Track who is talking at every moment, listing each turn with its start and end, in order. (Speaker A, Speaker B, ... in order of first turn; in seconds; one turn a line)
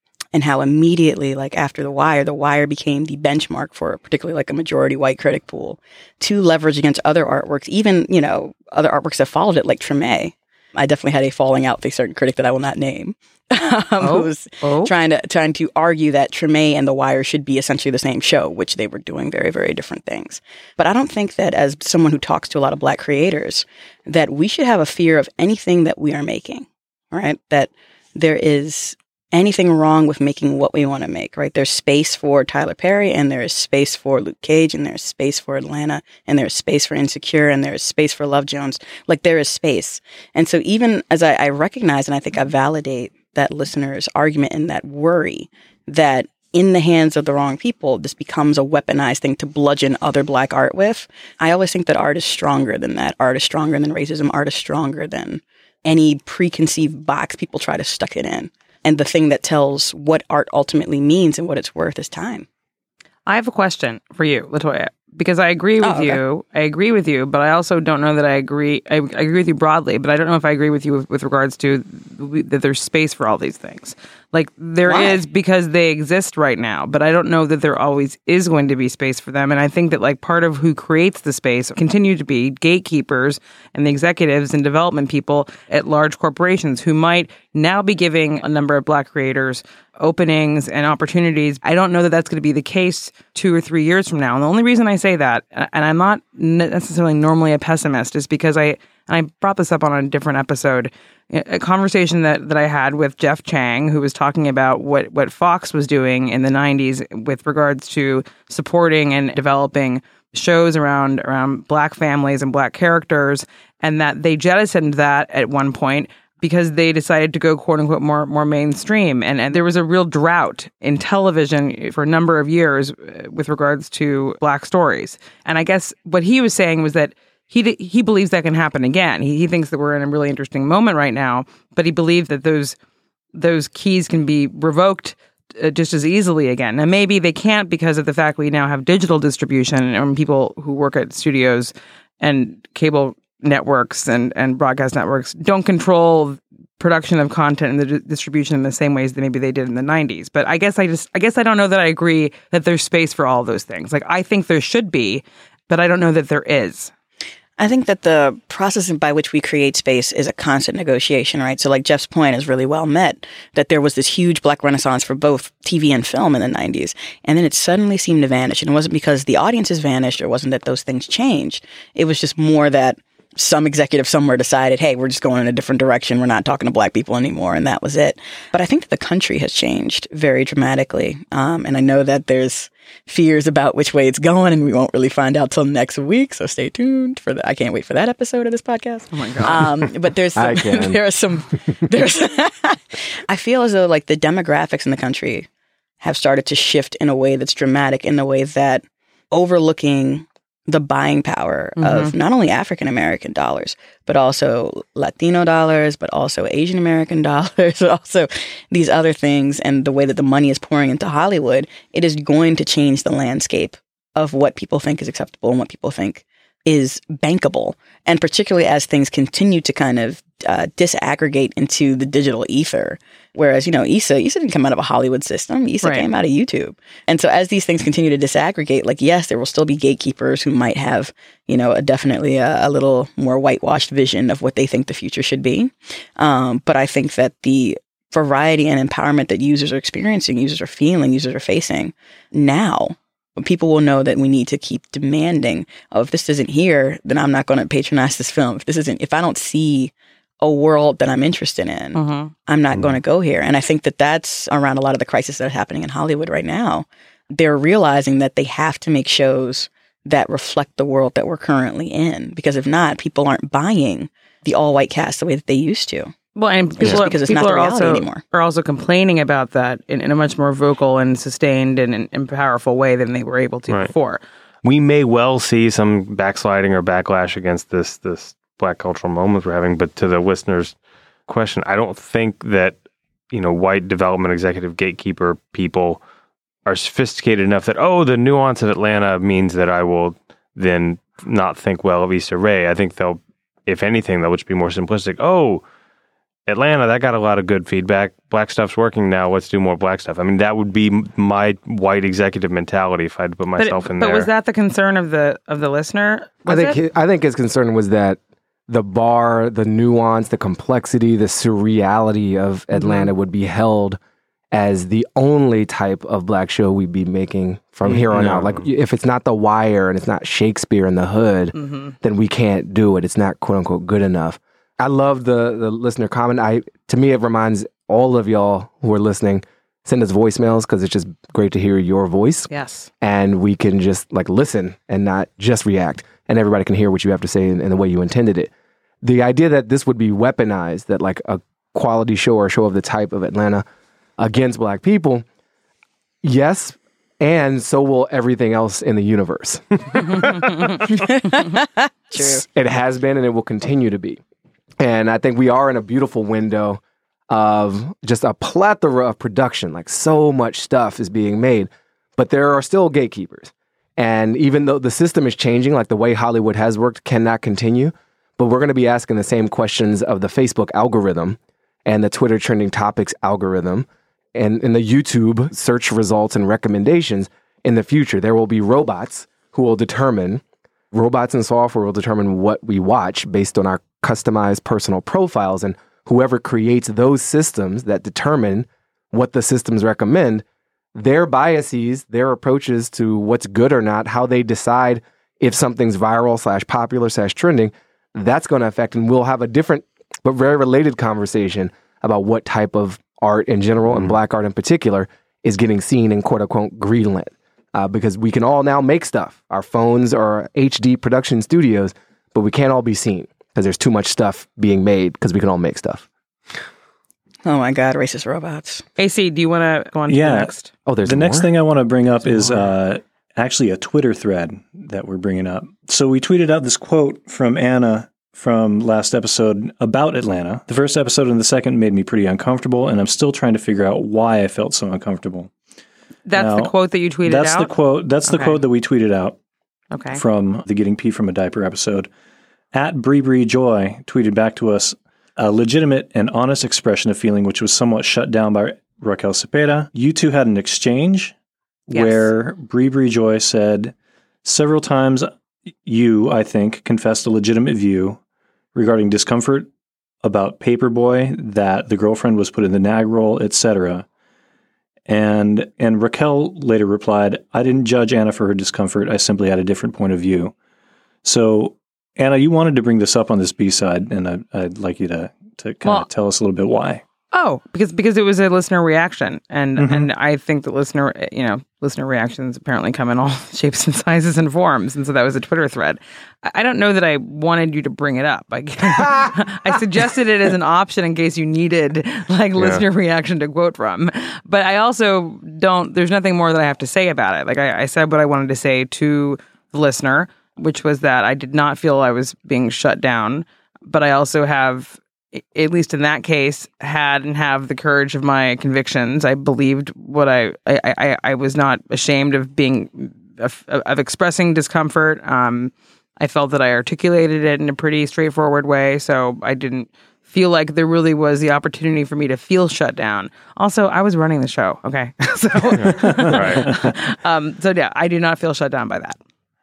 Speaker A: 0.3-62.5
Speaker B: 14.0-14.9
Speaker B: 63.3-132.8
Speaker A: 65.8-66.2
Speaker A: 74.9-75.2
Speaker B: 133.3-156.9
Speaker A: 157.6-195.5
Speaker B: 189.1-189.6
Speaker C: 190.3-191.0
Speaker A: 196.0-266.1
Speaker B: 201.8-202.1
Speaker B: 225.8-226.1
Speaker B: 251.9-252.3
Speaker D: 252.7-253.0
Speaker B: 266.4-274.2
Speaker A: 266.8-268.2
Speaker D: 274.6-280.8
Speaker D: 281.3-282.8
Speaker D: 283.3-286.0
Speaker D: 286.7-295.6
Speaker D: 296.5-304.3
Speaker B: 303.6-306.8
Speaker C: 306.5-314.0
Speaker B: 312.7-313.1
Speaker C: 314.5-332.5
Speaker D: 317.9-318.6
Speaker B: 321.6-321.9
Speaker B: 332.5-332.9
Speaker C: 333.0-338.5
Speaker C: 339.0-343.6
Speaker C: 344.2-345.2
Speaker C: 346.2-350.5
Speaker A: 350.9-352.4
Speaker C: 352.2-354.2
Speaker C: 354.8-390.4
Speaker C: 390.9-416.1
Speaker A: 417.4-418.9
Speaker B: 419.0-420.7
Speaker E: 420.1-420.5
Speaker C: 420.9-421.5
Speaker E: 421.0-435.5
Speaker C: 422.2-422.7
Speaker B: 436.3-437.7
Speaker E: 436.4-439.4
Speaker B: 438.2-438.6
Speaker B: 439.9-440.2
Speaker E: 440.1-442.1
Speaker E: 442.7-451.3
Speaker E: 451.9-455.3
Speaker B: 451.9-452.3
Speaker E: 455.9-458.2
Speaker E: 458.8-459.7
Speaker E: 460.2-464.1
Speaker E: 465.1-470.5
Speaker E: 471.2-477.0
Speaker B: 477.3-529.2
Speaker E: 479.8-480.1
Speaker D: 492.6-492.9
Speaker D: 525.8-526.7
Speaker E: 525.8-526.9